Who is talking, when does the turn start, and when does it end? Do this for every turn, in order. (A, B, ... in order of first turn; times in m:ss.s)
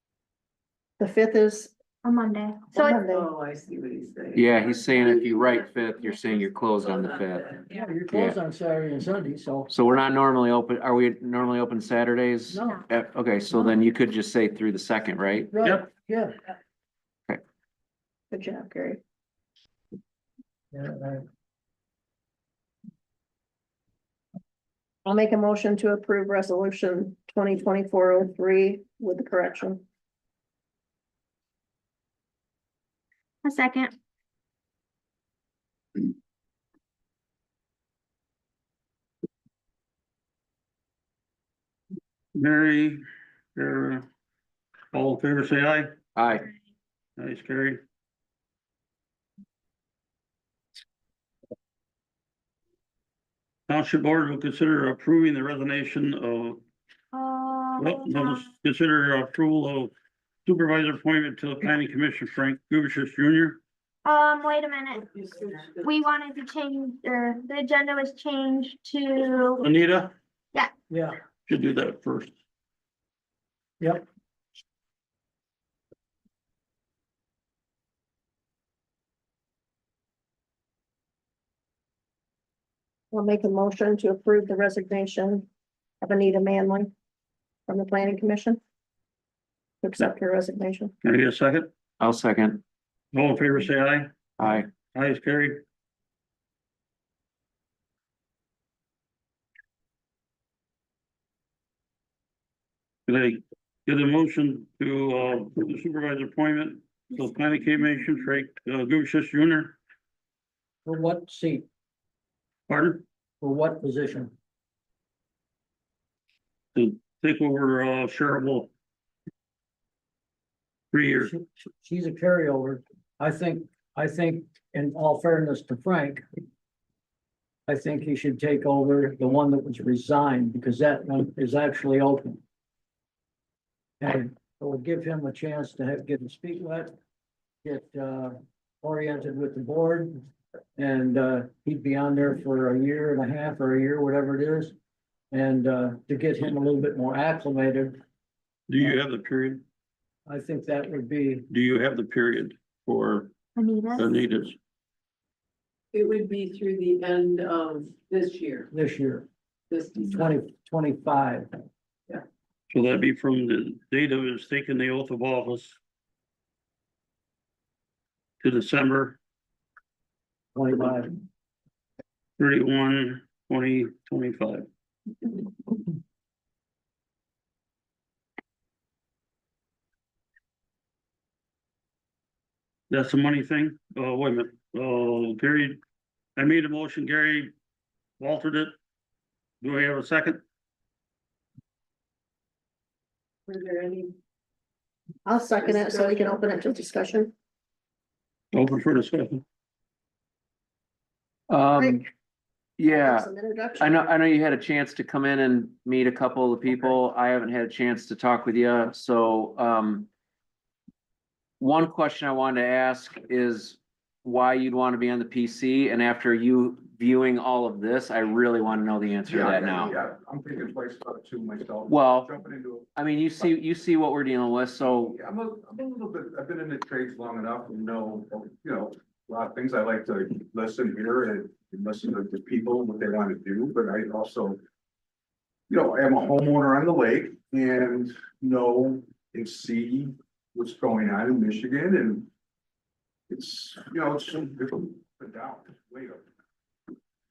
0:01.0-0:01.7 A
0:02.0-0:03.1 B
0:02.8-0:03.3 A
0:03.1-0:07.7 C
0:04.3-0:07.6 D
0:07.7-0:09.7 E
0:08.1-0:08.4 D
0:09.7-0:15.5 D
0:12.5-0:12.8 E
0:15.5-0:16.4 E
0:18.3-0:19.0 A
0:20.7-0:21.2 E
0:25.0-0:29.8 A
0:33.4-0:33.9 B
0:42.3-0:43.0 F
0:43.5-0:44.0 F
0:44.9-0:45.9 F
0:46.1-0:46.5 D
0:47.2-0:47.8 F
0:53.7-0:56.6 F
0:57.1-0:58.5 B
0:57.8-0:59.9 F
1:00.4-1:03.6 F
1:04.0-1:09.7 B
1:05.1-1:05.6 C
1:09.6-1:10.1 F
1:10.9-1:11.2 E
1:11.5-1:12.3 F
1:13.8-1:14.0 E
1:23.1-1:25.5 A
1:26.0-1:26.9 A
1:27.7-1:28.6 A
1:29.8-1:30.9 A
1:31.0-1:31.7 F
1:32.0-1:32.6 D
1:33.1-1:34.1 F
1:34.4-1:34.7 D
1:34.9-1:35.6 F
1:43.1-1:49.8 F
1:50.8-1:51.7 E
1:52.7-1:53.0 F
1:53.4-1:54.3 E
1:56.7-1:58.7 F
2:00.9-2:01.3 F
2:01.2-2:06.2 E
2:07.7-2:12.4 E
2:14.0-2:16.9 E
2:17.6-2:20.2 E
2:20.8-2:24.7 E
2:25.3-2:28.0 E
2:28.7-2:29.6 F
2:30.2-2:31.5 E
2:31.5-2:33.3 F
2:33.6-2:34.1 B
2:34.0-2:34.6 F
2:35.9-2:38.7 C
2:38.7-2:39.3 E
2:39.7-2:40.3 C
2:40.1-2:41.5 E
2:42.7-2:45.8 F
2:48.4-2:49.2 F
2:50.5-2:51.2 E
2:52.4-2:54.6 F
3:02.9-3:05.8 F
3:06.4-3:07.5 F
3:08.2-3:08.7 F
3:09.6-3:10.4 F
3:13.5-3:14.1 C
3:15.2-3:17.3 A
3:18.5-3:19.4 F
3:21.5-3:22.0 D
3:21.8-3:22.0 A
3:22.8-3:30.1 D
3:22.9-3:24.0 A
3:31.6-3:39.9 D
3:39.2-3:43.5 G
3:41.9-3:42.3 D
3:43.0-3:45.2 D
3:45.0-3:54.6 G
3:55.7-4:02.3 G
4:03.3-4:06.2 G